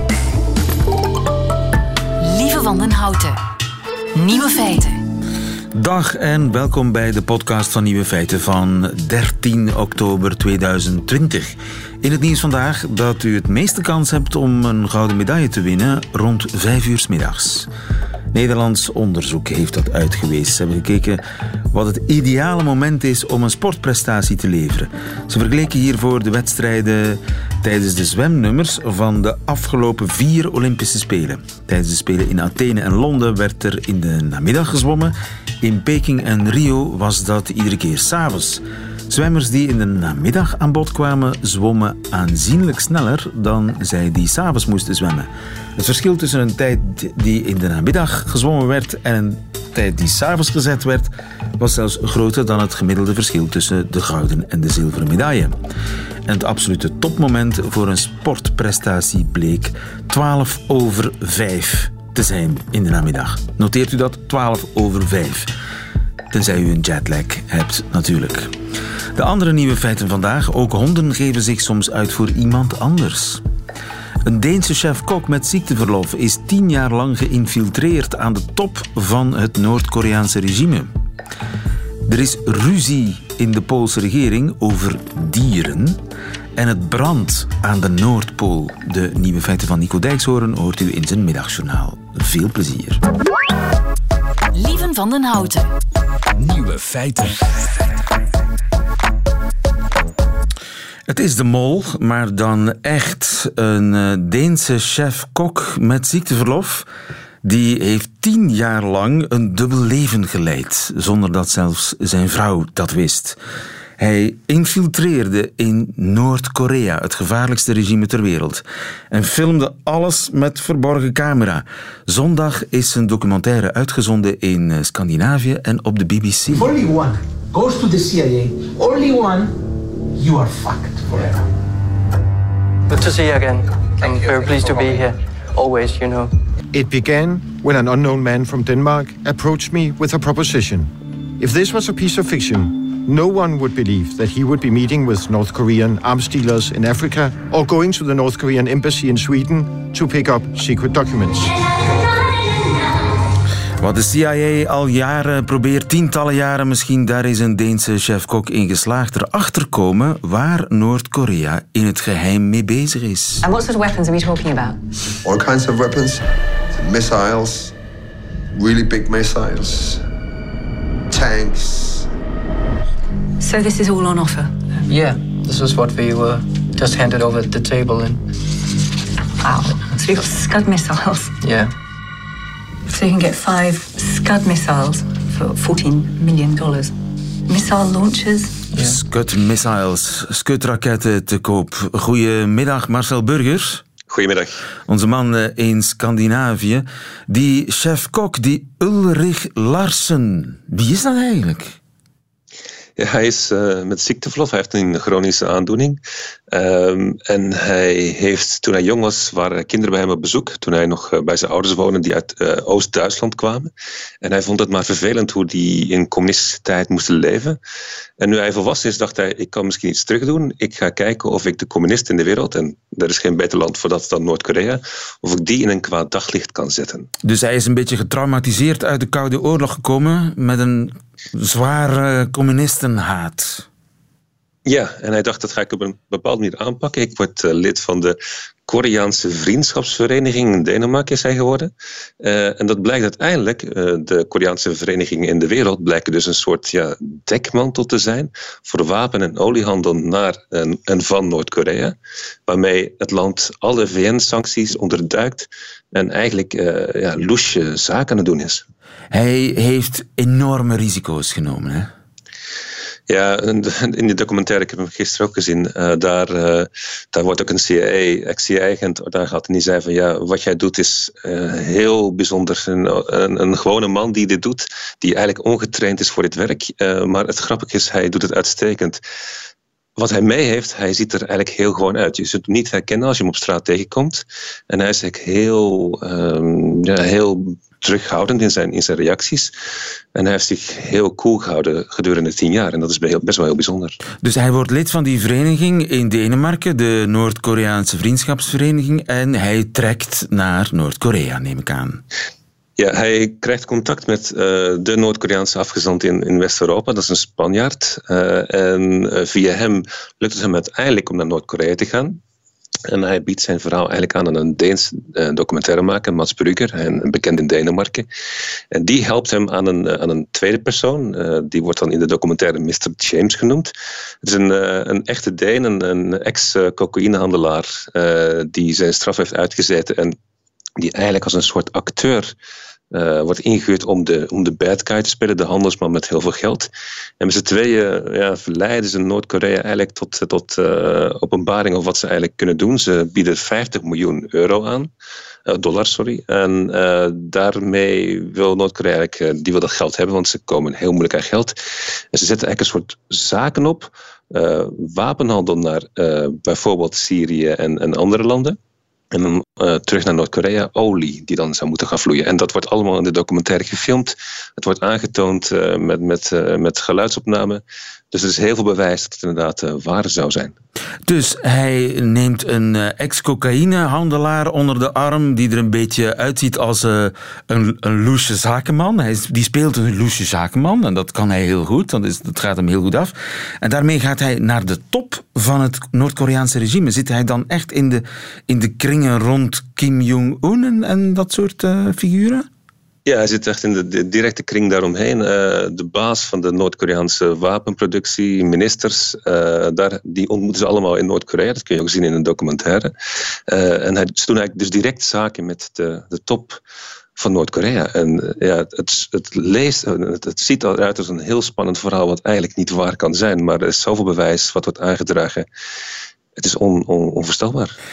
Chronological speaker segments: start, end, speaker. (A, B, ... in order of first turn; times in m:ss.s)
0:02.2-0:03.4 A
0:04.1-0:05.0 A
0:05.7-0:17.7 B
0:18.3-0:21.2 B
0:21.7-0:55.5 B
0:56.2-1:05.5 B
1:06.3-1:08.5 B
1:09.1-1:13.4 B
1:14.2-1:20.9 B
1:22.0-1:26.0 B
1:26.6-1:33.0 B
1:34.5-1:35.7 A
1:36.4-1:37.9 C
1:41.1-1:46.9 B
1:47.4-1:53.4 B
1:54.0-2:06.7 B
2:06.5-2:09.5 C
2:10.2-2:11.4 C
2:12.9-2:16.3 D
2:16.7-2:31.6 E
2:33.8-2:43.4 B
2:43.4-2:44.8 F
2:45.2-2:47.7 G
2:48.5-2:50.0 G
2:51.1-2:52.1 G
2:53.4-2:54.6 F
2:54.8-2:58.2 D
2:59.4-3:01.4 F
3:01.4-3:01.7 D
3:02.9-3:06.9 F
3:07.5-3:08.8 F
3:08.8-3:13.8 B
3:14.1-3:14.6 H
3:14.9-3:21.8 B
3:23.0-3:26.0 H
3:26.5-3:33.7 H
3:34.2-3:37.6 H
3:38.2-3:47.1 H
3:47.2-3:53.6 B
3:54.6-4:11.9 H
4:12.5-4:18.6 H
4:19.1-4:21.9 B
4:23.1-4:39.0 H
4:40.0-4:49.5 H
4:50.1-4:54.0 H
4:54.2-5:02.0 B
5:02.8-5:12.2 H
5:12.9-5:18.1 H
5:18.7-5:23.7 H
5:24.2-5:30.1 H
5:30.8-5:32.3 H
5:32.9-5:36.7 H
5:37.2-5:44.9 H
5:45.5-5:51.6 H
5:52.1-5:58.6 H
5:59.1-6:10.5 H
6:11.0-6:32.4 B
6:33.0-6:42.9 H
6:43.5-6:46.6 H
6:47.2-6:55.5 H
6:56.4-6:57.7 H